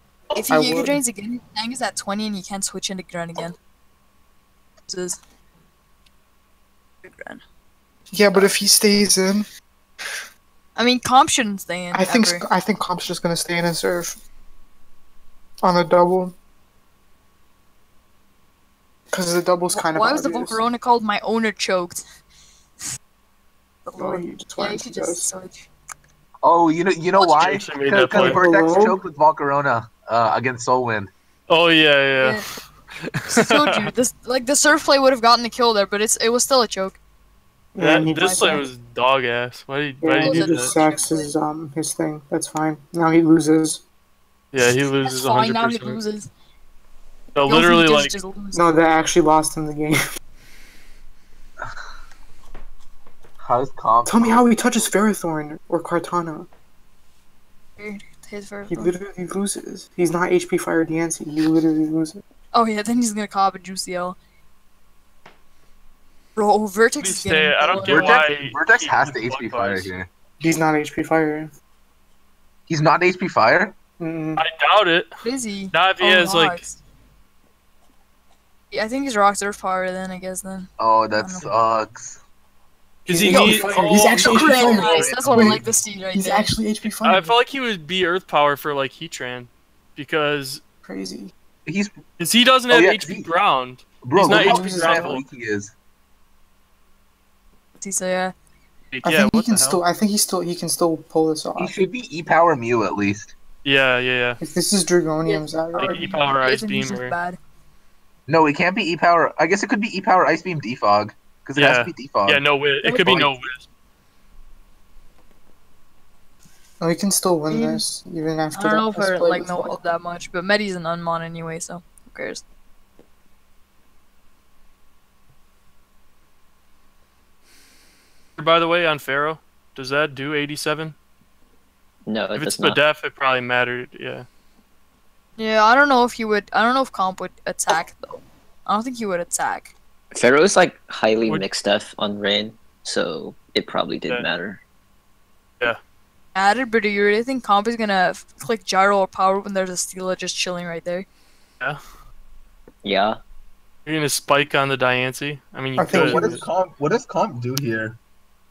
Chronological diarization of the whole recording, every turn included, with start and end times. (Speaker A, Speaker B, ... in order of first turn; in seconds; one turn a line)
Speaker A: 0.3-3.5
Speaker B: 0.5-1.0
Speaker A: 4.9-5.2
Speaker A: 7.0-7.4
Speaker B: 8.1-9.5
Speaker A: 10.8-12.4
Speaker B: 11.9-14.2
Speaker B: 15.6-16.4
Speaker B: 19.1-20.6
Speaker A: 19.7-22.0
Speaker A: 23.9-25.7
Speaker B: 24.0-25.3
Speaker C: 26.4-31.1
Speaker D: 27.2-28.4
Speaker B: 28.1-29.0
Speaker D: 31.5-32.4
Speaker A: 32.2-32.5
Speaker D: 33.1-33.9
Speaker A: 33.4-37.0
Speaker B: 37.8-38.7
Speaker D: 37.8-40.7
Speaker A: 38.0-38.6
Speaker B: 40.0-43.8
Speaker A: 40.2-41.3
Speaker D: 44.5-46.0
Speaker A: 44.6-46.3
Speaker D: 47.4-48.1
Speaker A: 47.5-48.8
Speaker B: 48.5-50.0
Speaker C: 53.4-55.0
Speaker B: 54.1-56.5
Speaker A: 57.8-58.9
Speaker B: 58.7-62.2
Speaker A: 62.5-64.2
Speaker A: 66.4-68.2
Speaker D: 67.0-69.9
Speaker C: 67.8-70.1
Speaker B: 70.4-71.5
Speaker C: 72.7-73.8
Speaker B: 74.0-74.4
Speaker D: 74.4-75.1
Speaker A: 75.2-76.8
Speaker D: 75.7-76.6
Speaker A: 78.7-81.5
Speaker C: 80.8-82.2
Speaker D: 83.1-85.6
Speaker B: 83.1-87.3
Speaker A: 84.2-86.5
Speaker C: 84.2-85.6
Speaker D: 87.0-90.6
Speaker B: 90.8-91.3
Speaker C: 91.7-92.0
Speaker D: 92.2-95.2
Speaker C: 92.7-93.3
Speaker C: 94.0-95.7
Speaker B: 94.2-95.2
Speaker A: 97.8-98.3
Speaker D: 98.9-99.8
Speaker B: 99.0-101.7
Speaker C: 101.6-103.3
Speaker D: 103.6-104.4
Speaker B: 104.4-106.2
Speaker A: 105.2-107.4
Speaker D: 105.8-107.2
Speaker C: 108.3-112.4
Speaker D: 111.6-113.7
Speaker A: 112.8-113.3
Speaker B: 116.8-119.8
Speaker A: 117.5-117.8
Speaker A: 118.5-122.4
Speaker D: 128.4-131.0
Speaker E: 132.1-132.8
Speaker D: 132.3-134.3
Speaker A: 135.4-139.7
Speaker E: 140.1-144.6
Speaker A: 146.3-151.1
Speaker E: 152.8-153.2
Speaker D: 153.9-156.4
Speaker B: 155.8-156.4
Speaker C: 155.9-158.0